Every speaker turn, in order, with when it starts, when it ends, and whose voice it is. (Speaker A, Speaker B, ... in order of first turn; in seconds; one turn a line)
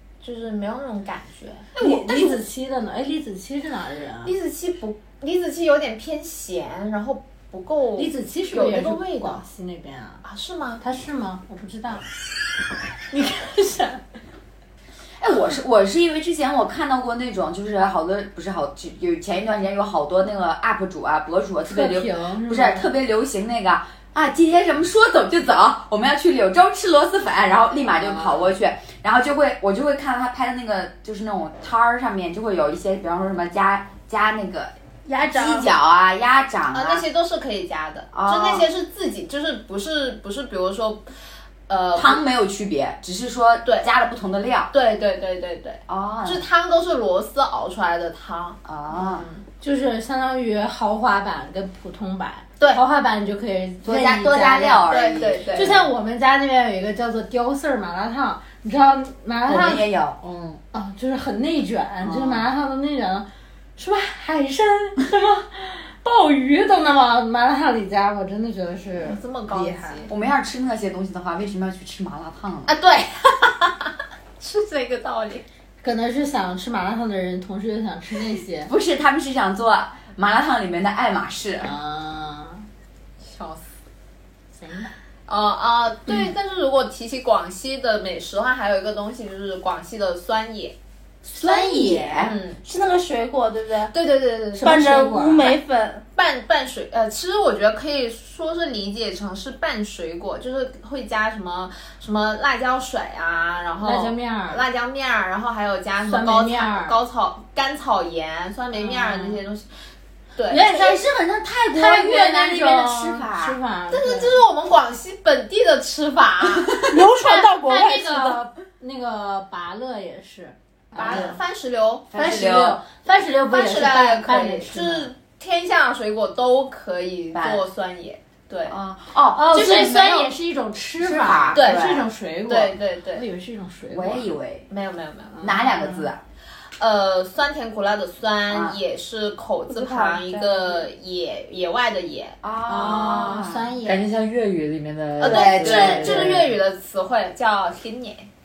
Speaker A: 0.2-1.7
Speaker B: 1.8-2.4
Speaker C: 1.8-4.3
Speaker A: 4.2-9.4
Speaker C: 8.0-10.2
Speaker A: 10.2-10.8
Speaker C: 10.8-12.0
Speaker C: 13.1-14.0
Speaker B: 15.2-34.7
Speaker C: 21.7-22.9
Speaker C: 27.8-28.4
Speaker D: 35.0-35.7
Speaker B: 35.3-37.0
Speaker A: 36.7-41.1
Speaker B: 38.1-38.7
Speaker A: 41.7-42.2
Speaker B: 41.9-44.7
Speaker A: 44.7-49.4
Speaker B: 45.9-46.4
Speaker B: 48.6-49.3
Speaker C: 49.6-54.9
Speaker B: 53.8-55.9
Speaker A: 54.9-55.8
Speaker C: 55.5-59.9
Speaker B: 59.5-60.2
Speaker E: 60.2-60.6
Speaker C: 60.7-70.1
Speaker B: 62.0-62.5
Speaker A: 69.0-70.1
Speaker B: 70.1-72.7
Speaker A: 72.7-75.4
Speaker C: 75.8-78.7
Speaker B: 78.7-81.7
Speaker C: 81.6-82.7
Speaker A: 83.2-83.7
Speaker C: 84.5-84.9
Speaker A: 85.3-90.8
Speaker C: 91.3-92.3
Speaker B: 91.4-92.4
Speaker D: 91.4-93.9
Speaker A: 92.2-92.6
Speaker A: 93.9-94.8
Speaker C: 94.5-95.6
Speaker D: 94.6-96.0
Speaker A: 96.1-109.7
Speaker C: 103.8-104.6
Speaker C: 106.0-107.0
Speaker C: 108.7-109.4
Speaker A: 110.3-110.7
Speaker C: 110.5-114.4
Speaker B: 110.6-113.6
Speaker A: 113.9-116.8
Speaker D: 116.9-118.4
Speaker C: 117.2-121.4
Speaker A: 120.9-122.2
Speaker B: 121.0-121.4
Speaker B: 122.1-122.8
Speaker C: 122.1-125.1
Speaker A: 123.5-128.8
Speaker B: 127.3-127.6
Speaker B: 128.7-130.3
Speaker C: 129.3-134.3
Speaker B: 131.0-132.1
Speaker A: 131.5-131.9
Speaker A: 132.5-133.2
Speaker B: 133.9-134.7
Speaker A: 134.7-135.4
Speaker C: 135.4-136.1
Speaker B: 135.4-136.2
Speaker A: 136.8-142.4
Speaker B: 138.5-138.8
Speaker D: 139.7-140.9
Speaker B: 142.4-143.7
Speaker C: 142.7-144.1
Speaker E: 143.8-146.5
Speaker A: 145.2-148.3
Speaker B: 145.2-146.4